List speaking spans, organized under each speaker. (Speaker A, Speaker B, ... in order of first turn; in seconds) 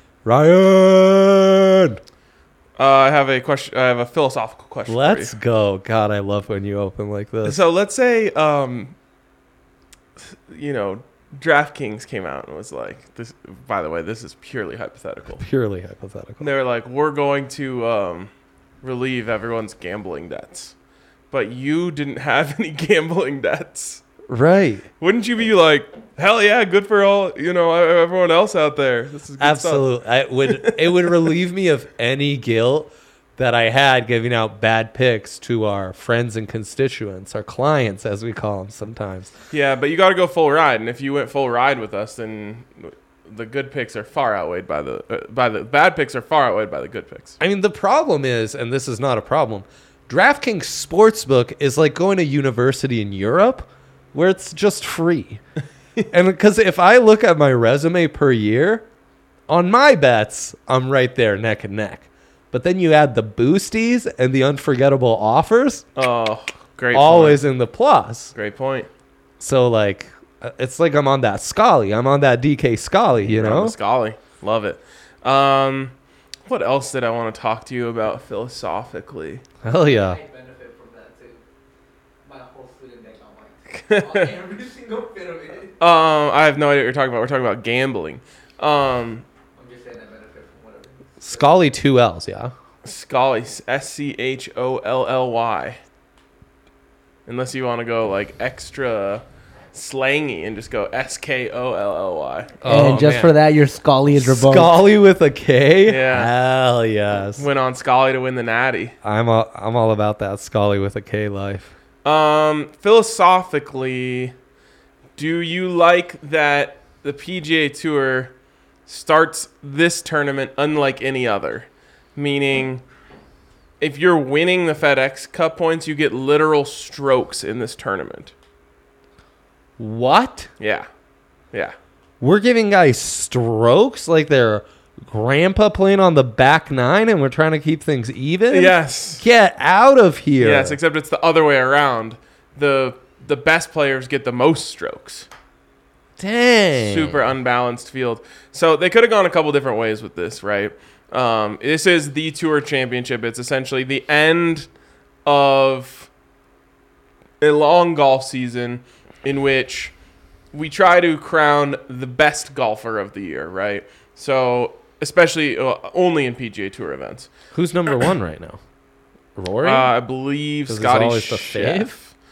Speaker A: 0.2-2.0, 4.9-7.6, 15.4-16.5, 24.3-24.9, 29.4-39.3, 47.4-55.4, 56.1-58.8, 59.5-65.9, 66.9-68.3, 69.4-73.7, 79.6-80.2, 91.2-92.5, 102.6-103.3, 104.2-107.5, 109.0-111.7, 129.8-130.5, 132.2-140.8, 146.2-147.2, 167.5-168.6, 169.3-169.9, 170.7-171.9
Speaker B: 2.8-5.3, 7.4-8.9, 10.3-15.4, 16.4-18.3, 18.8-20.7, 21.3-24.0, 25.0-29.9, 30.5-31.3, 39.5-47.4, 66.0-67.4, 68.3-68.9, 73.2-75.9, 76.5-79.4, 83.7-84.3, 85.8-89.2, 92.8-95.8, 97.3-102.5, 105.8-106.3, 107.3-108.9, 112.0-114.3, 115.2-118.3, 118.9-122.8, 123.8-128.3, 130.6-130.9, 138.5-139.2, 140.4-145.3, 146.7-154.7, 155.2-156.1, 157.4-159.9, 160.5-167.3, 169.6-172.1
Speaker C: 79.8-81.4, 82.2-85.7, 89.5-91.4, 102.6-104.8